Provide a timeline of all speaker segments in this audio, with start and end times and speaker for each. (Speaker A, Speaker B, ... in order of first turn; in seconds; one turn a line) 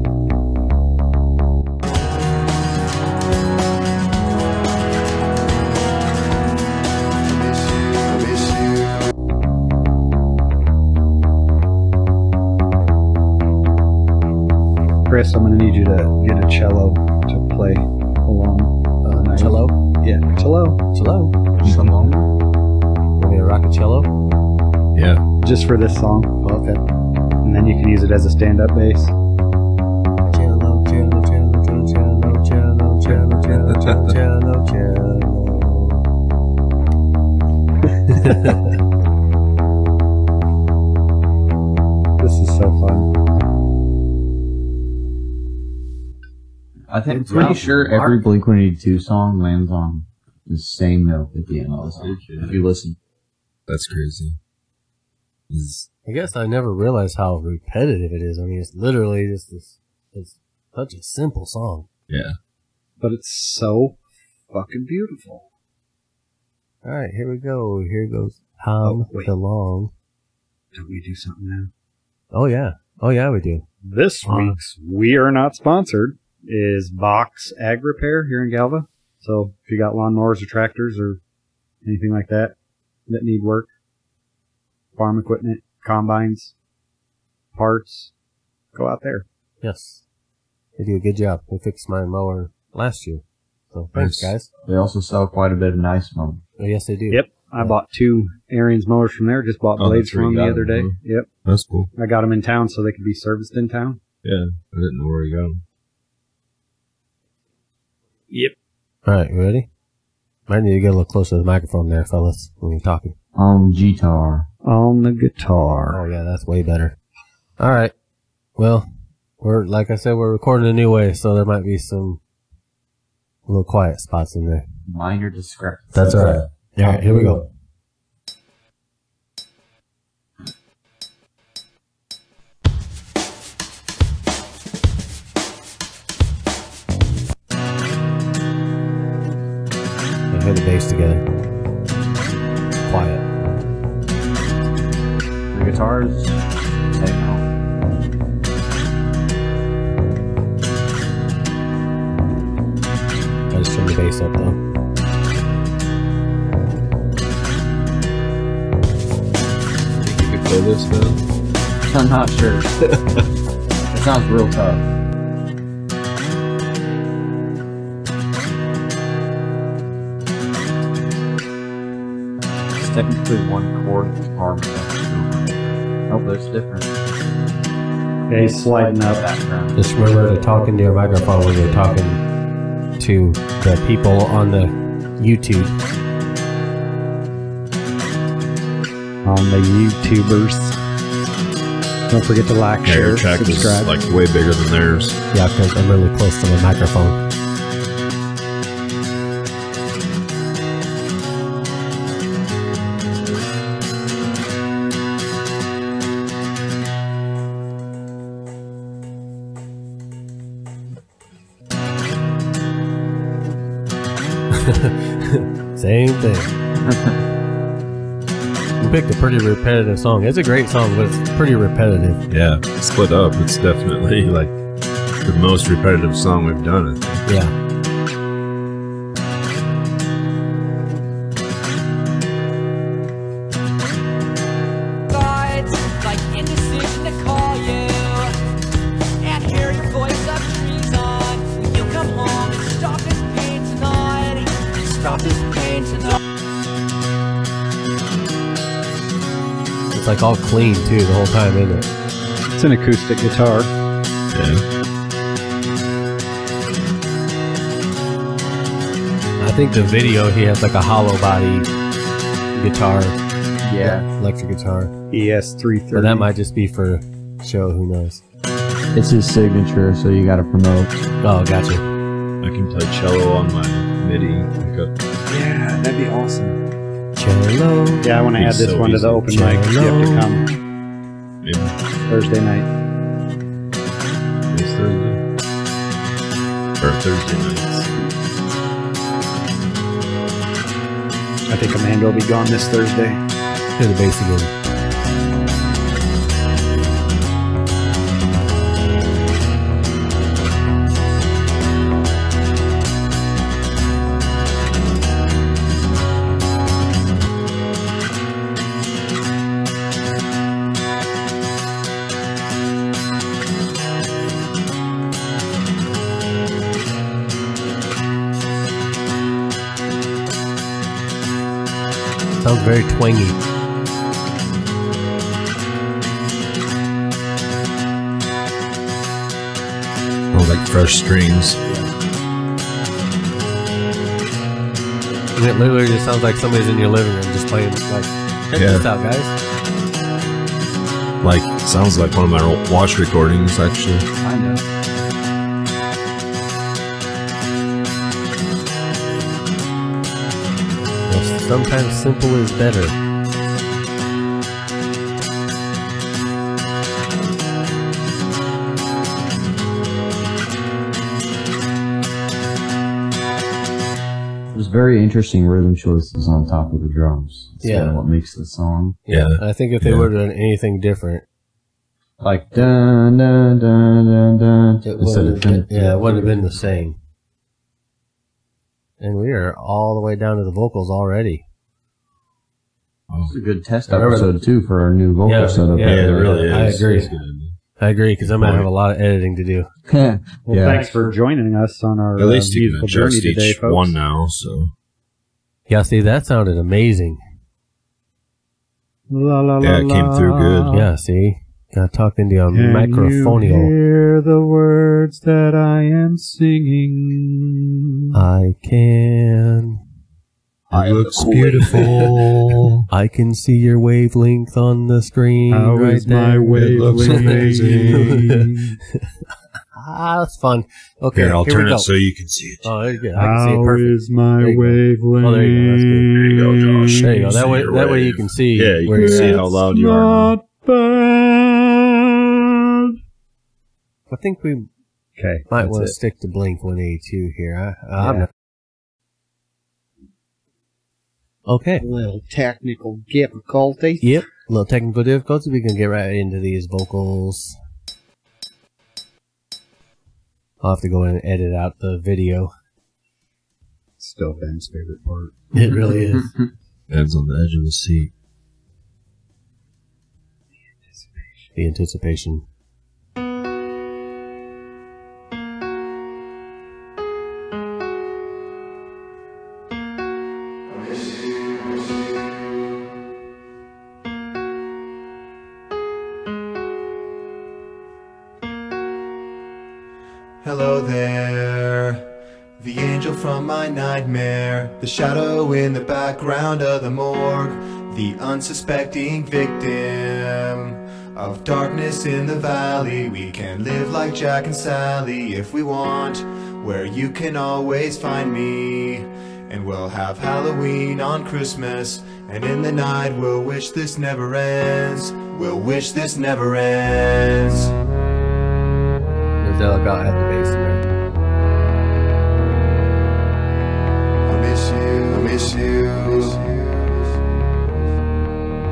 Speaker A: 15.1-20.8
Speaker B: 19.0-19.7
Speaker B: 20.9-21.4
Speaker C: 21.6-22.3
Speaker D: 21.6-21.9
Speaker B: 23.2-24.1
Speaker D: 24.9-25.2
Speaker A: 25.4-26.4
Speaker B: 26.4-26.8
Speaker A: 27.4-29.1
Speaker B: 30.3-36.0
Speaker D: 33.1-34.1
Speaker B: 38.1-38.8
Speaker A: 42.2-43.1
Speaker C: 46.9-53.0
Speaker B: 47.3-48.1
Speaker A: 47.3-47.6
Speaker D: 52.0-52.6
Speaker D: 53.7-54.4
Speaker D: 55.5-55.9
Speaker B: 56.0-61.9
Speaker D: 62.1-62.4
Speaker A: 63.0-65.5
Speaker B: 66.8-69.9
Speaker A: 68.8-69.3
Speaker A: 70.7-71.7
Speaker B: 72.3-73.6
Speaker A: 73.8-81.2
Speaker B: 74.2-74.6
Speaker A: 81.8-82.5
Speaker A: 83.1-83.7
Speaker A: 85.0-86.5
Speaker A: 87.5-88.1
Speaker A: 88.7-89.2
Speaker B: 89.6-90.0
Speaker B: 90.8-94.5
Speaker D: 93.9-94.3
Speaker C: 94.7-96.4
Speaker B: 96.6-97.8
Speaker A: 97.1-101.3
Speaker D: 99.8-101.9
Speaker A: 101.9-104.0
Speaker D: 104.2-105.6
Speaker B: 109.0-109.7
Speaker B: 110.5-113.2
Speaker C: 113.3-114.5
Speaker A: 114.6-116.0
Speaker B: 115.9-117.0
Speaker B: 117.6-117.9
Speaker B: 118.6-118.9
Speaker B: 119.4-122.2
Speaker B: 123.5-124.6
Speaker C: 124.8-127.4
Speaker B: 125.9-127.5
Speaker B: 140.3-141.2
Speaker B: 142.8-143.2
Speaker C: 145.5-147.4
Speaker B: 153.5-154.6
Speaker D: 160.0-161.2
Speaker C: 161.9-162.7
Speaker C: 163.9-164.8
Speaker C: 172.7-176.9
Speaker A: 178.3-179.2
Speaker C: 178.3-179.8
Speaker B: 179.8-182.2
Speaker B: 183.0-185.8
Speaker A: 189.2-190.8
Speaker A: 192.1-193.9
Speaker D: 192.8-195.2
Speaker B: 195.3-197.2
Speaker B: 214.5-216.5
Speaker C: 216.8-217.2
Speaker B: 218.8-222.2
Speaker D: 222.3-224.6
Speaker D: 225.2-227.2
Speaker B: 227.2-227.5
Speaker E: 235.1-238.4
Speaker E: 239.2-246.2
Speaker B: 249.9-251.9
Speaker A: 252.5-253.7
Speaker D: 254.3-254.6
Speaker B: 259.4-261.7
Speaker B: 262.5-263.2
Speaker C: 263.6-264.1
Speaker B: 263.8-264.9
Speaker A: 265.1-266.3
Speaker B: 265.9-268.2
Speaker C: 268.9-271.0
Speaker B: 271.2-271.9
Speaker D: 272.4-274.9
Speaker A: 275.2-276.6
Speaker B: 277.1-278.3
Speaker A: 278.0-280.6
Speaker D: 278.4-279.2
Speaker B: 279.3-280.3
Speaker D: 281.4-281.7
Speaker A: 282.0-282.7
Speaker D: 284.5-285.2
Speaker D: 286.8-287.9
Speaker A: 291.5-293.2
Speaker B: 293.8-294.5
Speaker B: 322.4-323.4
Speaker D: 330.3-331.6
Speaker B: 335.4-339.4
Speaker D: 338.5-338.9
Speaker D: 341.2-344.1
Speaker C: 344.2-344.6
Speaker B: 351.1-352.9
Speaker C: 364.5-369.0
Speaker B: 367.6-367.9
Speaker B: 369.1-371.2
Speaker D: 369.1-370.1
Speaker C: 372.2-376.6
Speaker B: 374.8-377.0
Speaker B: 379.0-381.4
Speaker D: 383.1-383.3
Speaker C: 383.2-386.8
Speaker B: 383.9-384.3
Speaker B: 385.2-387.1
Speaker D: 385.8-387.6
Speaker B: 387.8-389.7
Speaker D: 388.2-388.7
Speaker C: 389.9-390.9
Speaker A: 390.5-394.0
Speaker D: 392.1-394.7
Speaker B: 395.7-397.2
Speaker A: 399.1-400.9
Speaker D: 399.6-400.8
Speaker B: 400.7-403.7
Speaker A: 402.5-407.5
Speaker B: 408.1-409.8
Speaker D: 410.7-412.8
Speaker A: 410.7-412.5
Speaker B: 412.9-418.4
Speaker A: 415.5-418.8
Speaker D: 416.5-418.3
Speaker B: 419.7-421.9
Speaker D: 421.1-422.7
Speaker B: 422.6-426.1
Speaker A: 423.1-427.4
Speaker D: 426.1-430.4
Speaker B: 426.9-429.5
Speaker A: 428.9-433.0
Speaker B: 434.1-434.7
Speaker A: 435.2-435.9
Speaker B: 435.5-438.3
Speaker A: 438.0-438.3
Speaker B: 441.4-441.9
Speaker A: 441.8-444.1
Speaker B: 444.0-447.6
Speaker B: 450.6-452.5
Speaker A: 454.0-455.5
Speaker B: 455.5-456.3
Speaker D: 456.9-458.1
Speaker A: 460.9-461.5
Speaker B: 461.6-462.4
Speaker F: 480.4-482.1
Speaker F: 482.6-507.7
Speaker B: 509.4-510.8